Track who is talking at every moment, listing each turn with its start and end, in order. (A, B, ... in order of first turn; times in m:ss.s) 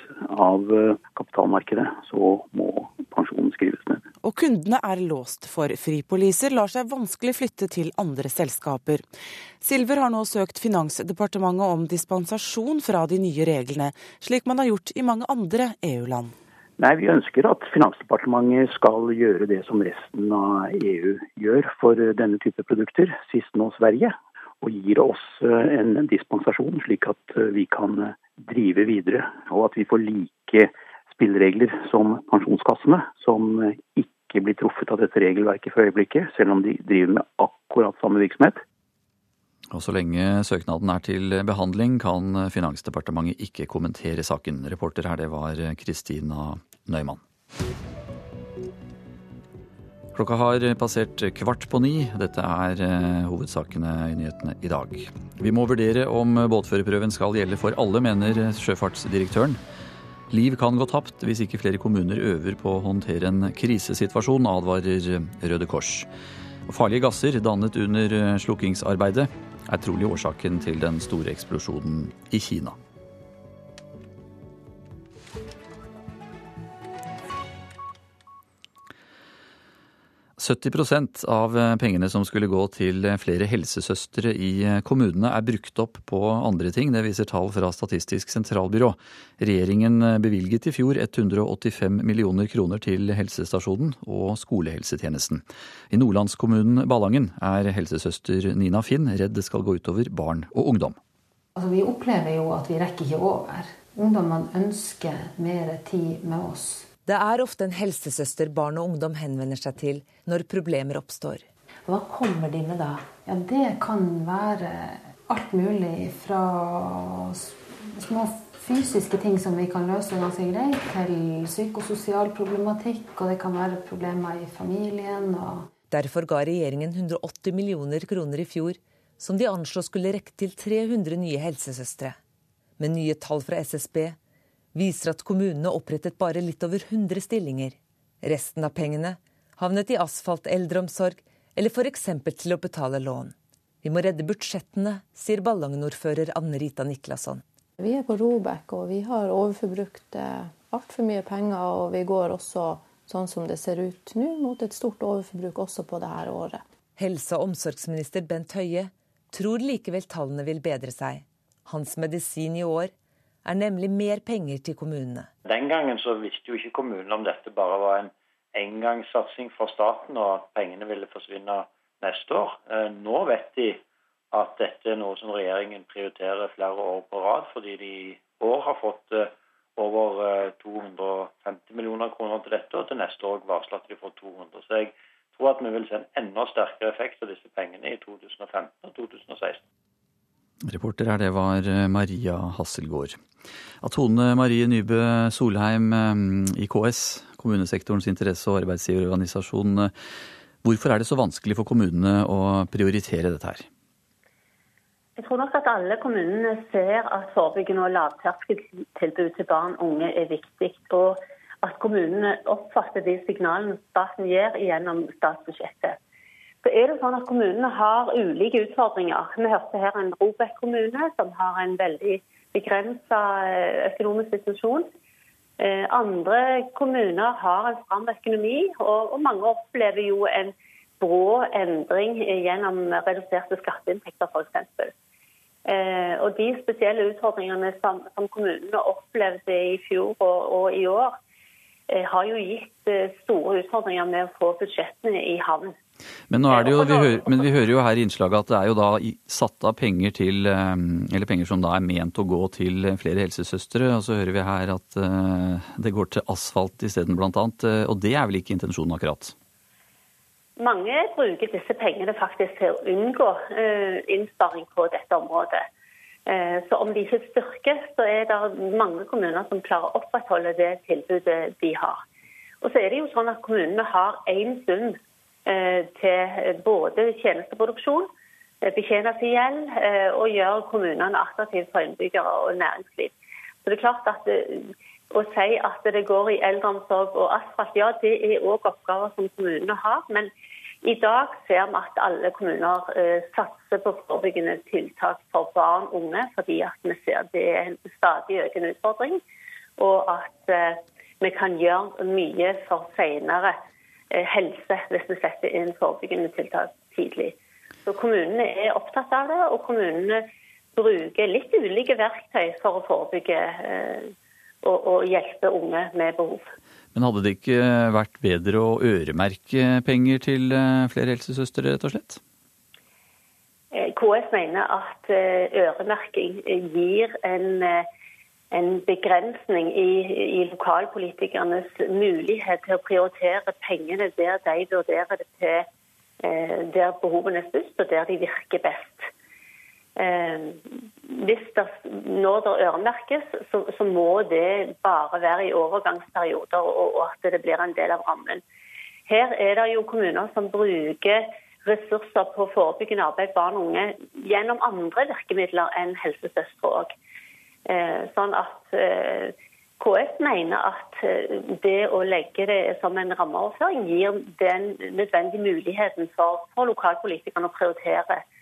0:00.5-0:04.0 A
0:04.2-0:09.0 B
0:09.6-0:16.3 B
0:16.8-0:24.1 A
0:24.6-0:30.6 A
0:31.2-0:38.6 A
0:39.7-0:47.2 C
0:50.1-0:59.6 C
1:00.3-1:06.1 C
1:06.7-1:12.8 C
1:20.4-1:41.0 C
1:41.6-1:46.9 D
1:47.0-1:51.4 E
1:51.8-2:05.7 D
2:05.9-2:12.2 E
2:12.8-2:14.2 E
2:14.7-2:27.4 E
2:27.8-2:36.6 F
2:37.0-2:42.9 E
2:43.4-2:45.3 E
2:45.4-2:53.8 G
2:54.3-3:09.6 G
3:10.6-3:13.2 C
3:13.8-3:19.9 C
3:20.6-3:23.6 C
3:25.2-3:36.0 H
3:36.6-3:44.9 H
3:45.6-3:54.9 H
3:55.7-4:01.1 H
4:01.9-4:05.7 H
4:06.3-4:19.3 C
4:06.5-4:07.4 H
4:20.6-4:25.6 H
4:26.3-4:32.0 H
4:32.6-4:38.1 H
4:38.6-4:43.1 H
4:43.6-4:50.3 H
4:50.8-4:59.2 H
4:59.8-5:03.6 H
5:04.1-5:07.3 H
5:07.8-5:10.2 H
5:10.8-5:14.1 H
5:14.6-5:16.5 H
5:16.9-5:22.2 C
5:23.7-5:27.8 H
5:28.5-5:35.6 H
5:36.2-5:39.1 H
5:40.0-5:48.4 H
5:49.1-5:56.9 H
5:57.7-6:08.2 H